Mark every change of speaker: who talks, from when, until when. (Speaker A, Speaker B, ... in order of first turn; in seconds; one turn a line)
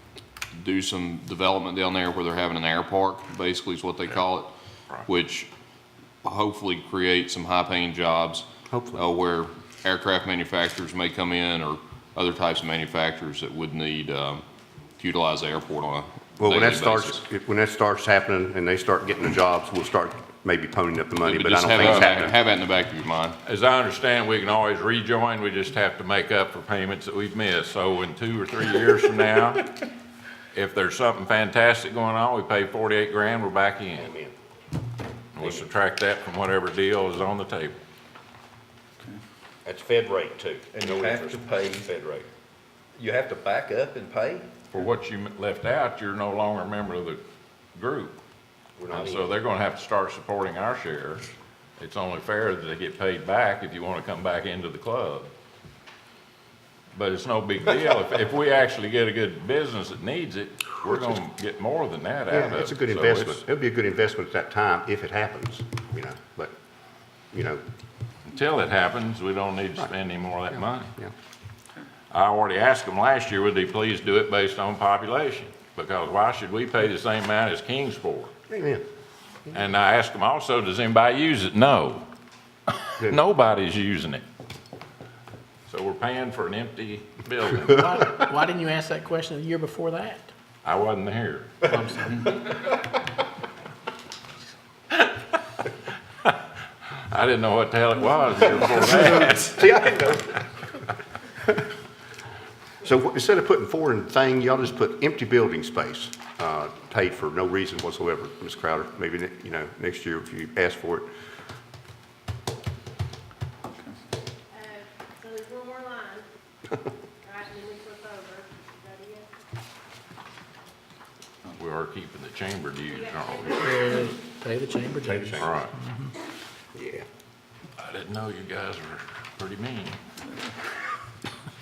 Speaker A: 0.5-4.5
Speaker A: 5.0-5.5
Speaker A: 6.2-14.4
Speaker B: 8.7-9.0
Speaker A: 15.0-17.2
Speaker B: 16.4-22.4
Speaker A: 21.2-23.4
Speaker C: 21.8-22.2
Speaker C: 23.4-29.7
Speaker C: 30.5-34.1
Speaker B: 34.0-34.3
Speaker C: 35.4-37.8
Speaker B: 35.4-35.7
Speaker B: 39.6-42.2
Speaker D: 40.8-41.8
Speaker D: 43.0-44.4
Speaker C: 44.7-47.2
Speaker C: 47.7-48.2
Speaker B: 48.8-49.4
Speaker C: 48.9-51.2
Speaker C: 51.8-55.3
Speaker C: 56.9-63.4
Speaker B: 62.3-66.5
Speaker B: 67.3-67.6
Speaker C: 68.3-70.9
Speaker C: 72.1-78.3
Speaker B: 78.5-78.8
Speaker C: 79.5-82.0
Speaker C: 82.7-84.2
Speaker C: 85.7-87.9
Speaker E: 87.6-90.3
Speaker C: 90.6-91.6
Speaker E: 91.7-92.3
Speaker C: 97.1-99.6
Speaker B: 98.5-100.5
Speaker B: 102.8-111.1
Speaker F: 114.5-116.2
Speaker F: 117.2-119.2
Speaker C: 121.5-123.7
Speaker F: 122.9-124.1
Speaker E: 123.5-126.1
Speaker B: 125.0-125.5
Speaker C: 125.4-125.7
Speaker B: 126.7-127.0
Speaker C: 127.8-130.0